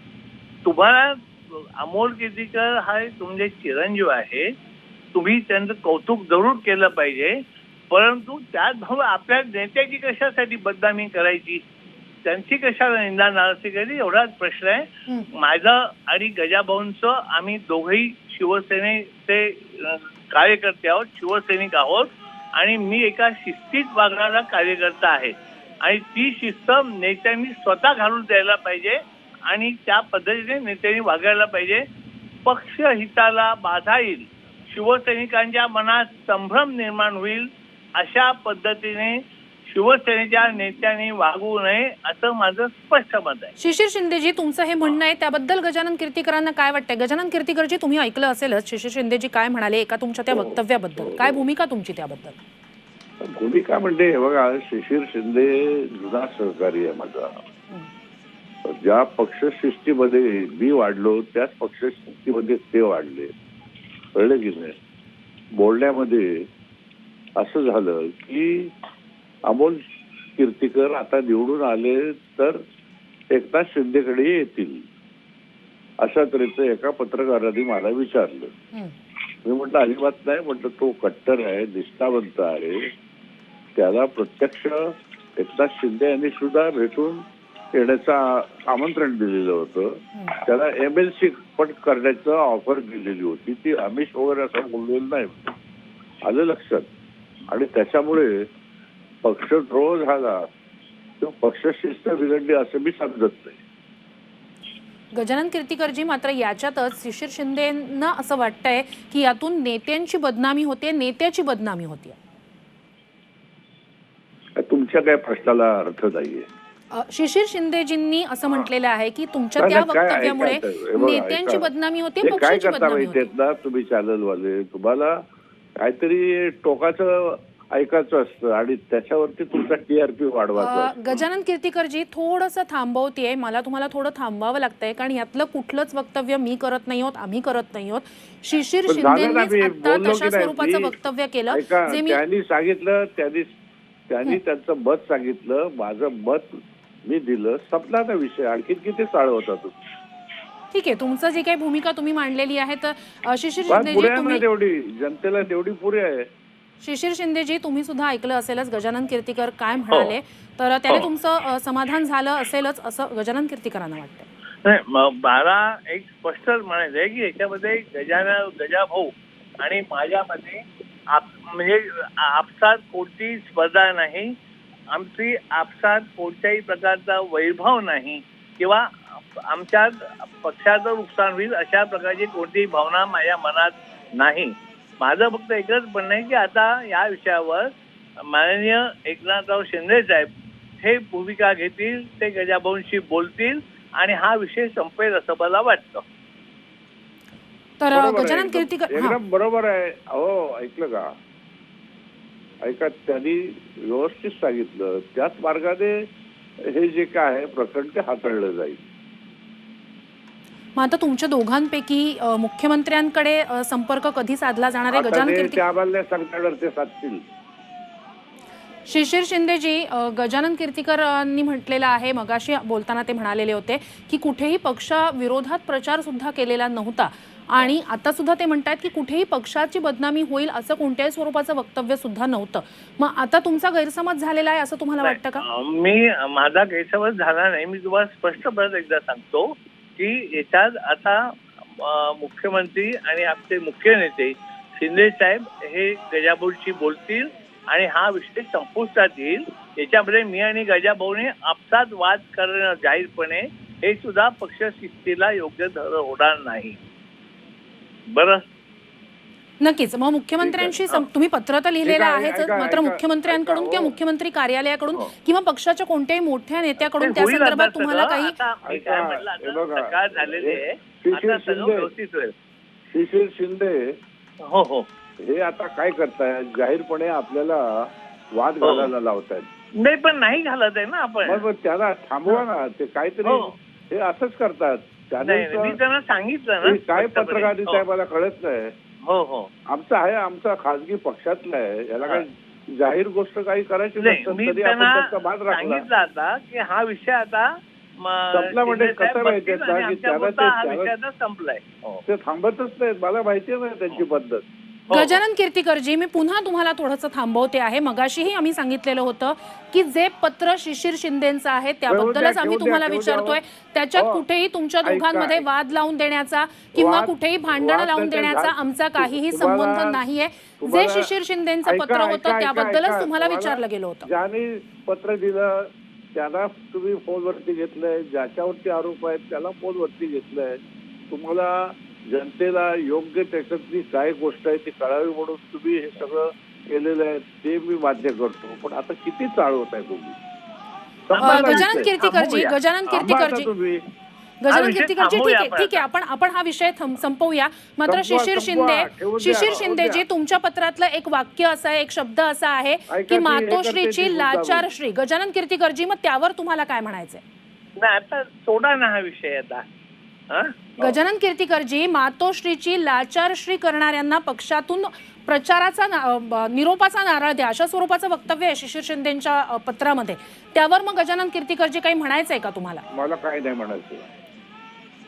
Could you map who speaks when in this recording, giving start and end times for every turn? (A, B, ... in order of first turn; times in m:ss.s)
0:00.6-0:04.5 A
0:05.1-0:11.6 A
0:12.2-0:31.8 A
0:32.5-0:43.6 A
0:43.6-0:52.4 B
0:50.3-0:51.4 C
0:53.2-0:57.4 C
0:58.6-1:03.3 C
1:04.2-1:04.8 C
1:05.6-1:06.5 C
1:07.4-1:08.7 C
1:09.5-1:09.8 C
1:10.4-1:12.6 C
1:13.3-1:14.8 C
1:16.0-1:18.5 C
1:19.4-1:22.9 C
1:23.8-1:35.6 C
1:36.2-1:36.9 C
1:37.5-1:38.5 C
1:39.2-1:40.5 C
1:41.2-1:43.6 C
1:45.2-1:52.2 B
1:54.6-1:56.5 C
1:56.9-2:03.3 B
1:59.6-2:01.7 C
2:02.2-2:05.2 C
2:05.8-2:11.0 C
2:10.6-2:22.2 B
2:18.9-2:20.9 C
2:21.5-2:23.5 C
2:24.1-2:29.8 C
2:30.7-2:34.4 B
2:33.7-2:36.3 C
2:36.8-2:44.3 B
2:39.9-2:40.2 A
2:44.6-2:54.4 A
2:54.9-3:16.0 A
3:17.8-3:19.2 B
3:17.9-3:21.1 C
3:22.6-3:26.1 C
3:26.6-3:28.8 C
3:30.8-3:35.6 B
3:34.9-3:37.2 C
3:38.9-3:55.4 B
3:55.0-4:16.8 A
4:18.1-4:18.4 A
4:19.6-4:28.4 B
4:20.4-4:20.8 C
4:21.8-4:24.0 C
4:26.8-4:32.3 A
4:28.7-4:31.9 C
4:32.9-4:34.0 C
4:34.4-4:34.9 A
4:35.2-4:39.5 C
4:38.6-4:38.9 A
4:39.8-4:41.5 A
4:41.2-4:45.8 C
4:43.2-4:43.5 A
4:45.2-4:47.8 A
4:46.6-4:48.8 C
4:49.0-4:49.5 A
4:49.7-4:55.9 C
4:54.0-5:02.0 A
4:58.3-5:00.9 C
5:02.1-5:04.4 C
5:04.9-5:05.2 A
5:04.9-5:24.1 B
5:11.9-5:13.4 C
5:14.0-5:14.2 C
5:14.8-5:15.5 C
5:16.7-5:20.0 C
5:20.6-5:21.1 C
5:21.6-5:40.2 C
5:41.1-5:43.8 C
5:41.2-5:43.5 B
5:41.2-5:41.6 A
5:44.4-5:57.2 B
5:44.5-5:45.9 A
5:47.8-5:50.0 C
5:52.9-5:54.7 C
5:57.8-5:59.7 A
6:00.3-6:00.7 A
6:00.8-6:12.8 B
6:12.9-6:14.1 C